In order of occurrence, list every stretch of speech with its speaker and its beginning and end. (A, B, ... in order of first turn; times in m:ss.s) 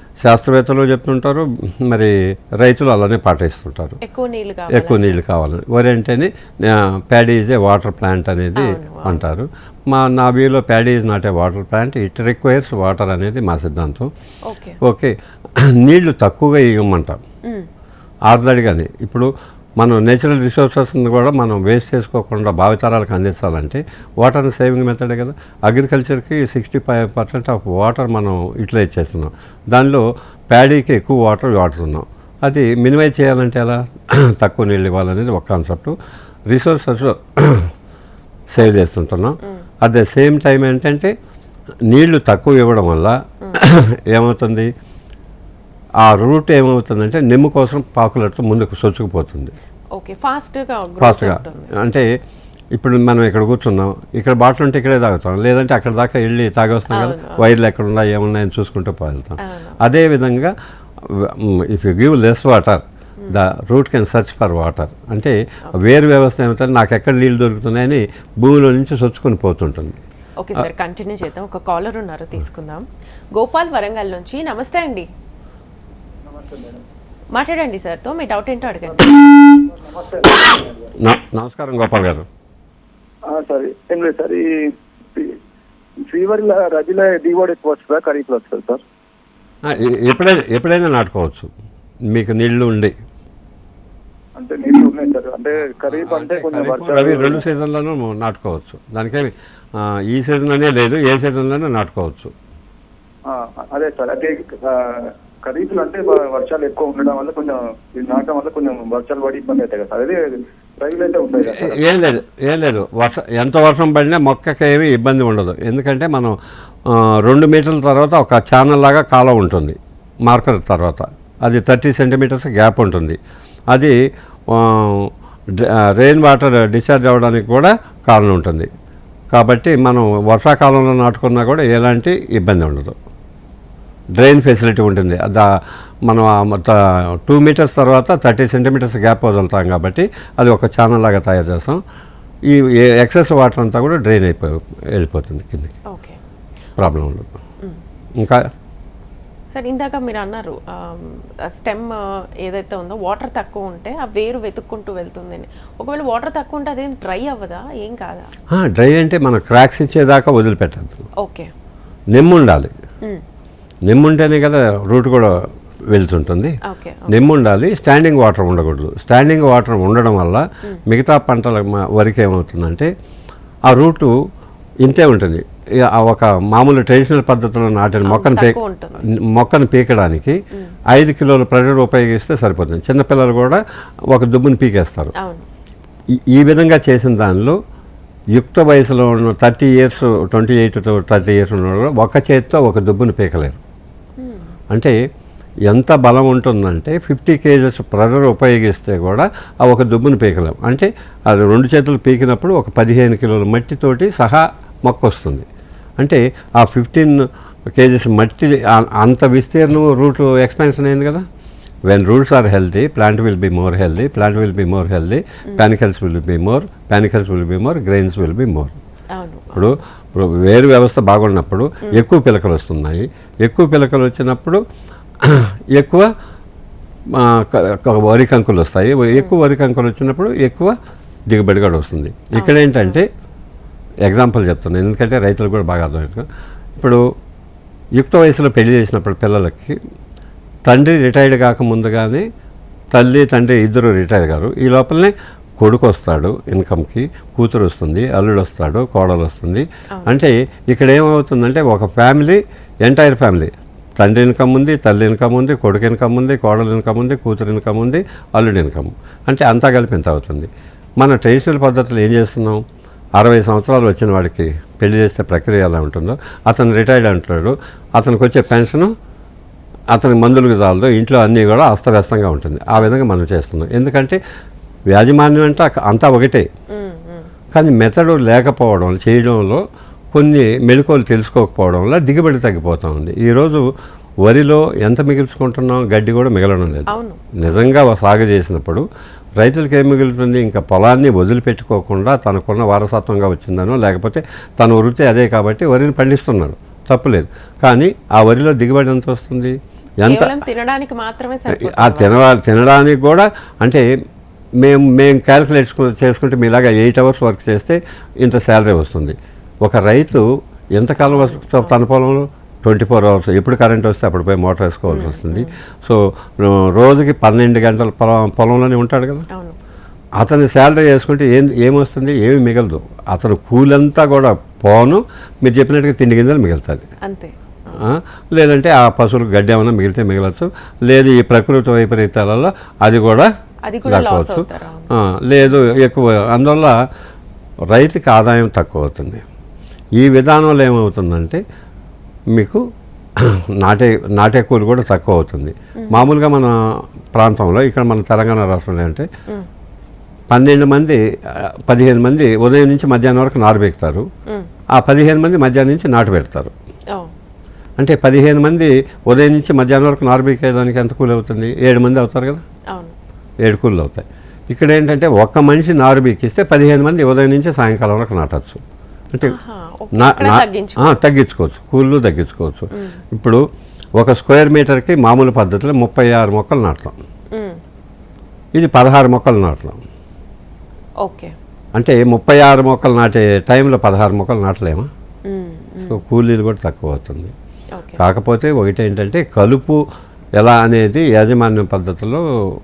0:00.2-0:04.0 A
0:04.0-0:05.2 B
0:04.7-0:14.1 A
0:08.5-0:09.2 B
0:14.5-0:14.8 B
0:14.8-0:15.1 A
0:15.8-0:17.2 A
0:18.3-0:35.9 A
0:36.5-0:37.7 A
0:38.5-0:41.1 A
0:41.9-0:44.7 A
0:46.0-0:49.5 A
0:50.0-0:51.7 B
0:51.0-0:52.1 A
0:52.7-1:00.5 A
0:56.9-0:57.4 B
0:59.4-0:59.8 B
1:01.0-1:10.0 A
1:10.4-1:15.1 B
1:16.2-1:16.8 C
1:17.4-1:19.1 B
1:18.8-1:20.9 C
1:21.0-1:22.3 A
1:23.3-1:24.4 C
1:26.1-1:28.8 C
1:29.6-1:31.5 A
1:32.1-1:32.9 A
1:34.4-1:37.4 C
1:35.9-1:42.3 A
1:43.3-1:51.8 C
1:51.4-1:56.4 A
1:56.9-2:03.2 A
2:04.5-2:08.7 A
2:09.3-2:13.0 A
2:14.2-2:15.5 A
2:16.0-2:21.8 A
2:22.5-2:25.7 A
2:25.9-2:26.2 B
2:26.8-2:27.3 A
2:28.2-2:28.5 A
2:29.5-2:38.3 B
2:38.5-2:41.0 A
2:41.2-2:41.5 B
2:42.1-2:42.7 A
2:43.9-2:45.4 A
2:45.9-2:46.6 A
2:46.6-2:47.2 B
2:47.1-2:52.9 A
2:53.7-2:54.1 A
2:54.8-2:58.6 A
2:58.0-2:59.0 B
2:59.3-3:00.4 A
3:00.9-3:03.6 A
3:04.1-3:05.1 A
3:05.2-3:05.4 B
3:06.3-3:07.6 A
3:08.4-3:13.6 A
3:14.2-3:14.5 B
3:14.7-3:15.0 A
3:15.7-3:25.4 A
3:26.0-3:27.2 A
3:27.8-3:31.2 A
3:31.9-3:38.8 A
3:39.2-3:39.8 B
3:39.5-3:44.6 A
3:45.2-3:46.1 A
3:47.1-3:50.8 A
3:51.3-3:53.1 A
3:52.4-3:53.0 B
3:54.0-3:57.0 A
3:58.0-3:59.8 A
4:00.6-4:02.2 A
4:02.9-4:22.6 A
4:23.2-4:28.9 A
4:29.9-4:34.2 A
4:34.9-4:36.5 A
4:36.7-4:37.3 B
4:37.5-4:43.6 A
4:44.2-4:48.9 A
4:46.9-4:47.2 B
4:49.4-5:00.3 A
5:00.0-5:02.2 B
5:01.5-5:03.9 A
5:04.6-5:10.2 A
5:10.8-5:19.2 A
5:11.0-5:11.8 B
5:14.9-5:15.5 B
5:20.2-5:26.8 A
5:27.0-5:27.8 B
5:27.8-5:33.3 A
5:33.7-5:34.9 B
5:33.8-5:36.7 A
5:37.7-5:39.2 A
5:40.0-5:41.4 A
5:42.3-5:42.6 A
5:43.2-5:46.6 A
5:45.8-5:46.1 B
5:47.1-5:49.1 A
5:50.3-5:54.1 A
5:54.8-5:56.5 A
5:57.8-6:02.4 A
6:03.4-6:08.6 A
6:09.2-6:11.0 B
6:10.0-6:13.4 A
6:12.7-6:13.0 B
6:14.0-6:17.0 A
6:17.3-6:17.6 B
6:18.5-6:19.8 A
6:21.0-6:21.3 B
6:21.8-6:24.9 A
6:25.3-6:26.0 B
6:25.9-6:27.3 A
6:27.8-6:28.0 B
6:28.0-6:29.8 A
6:30.4-6:32.2 A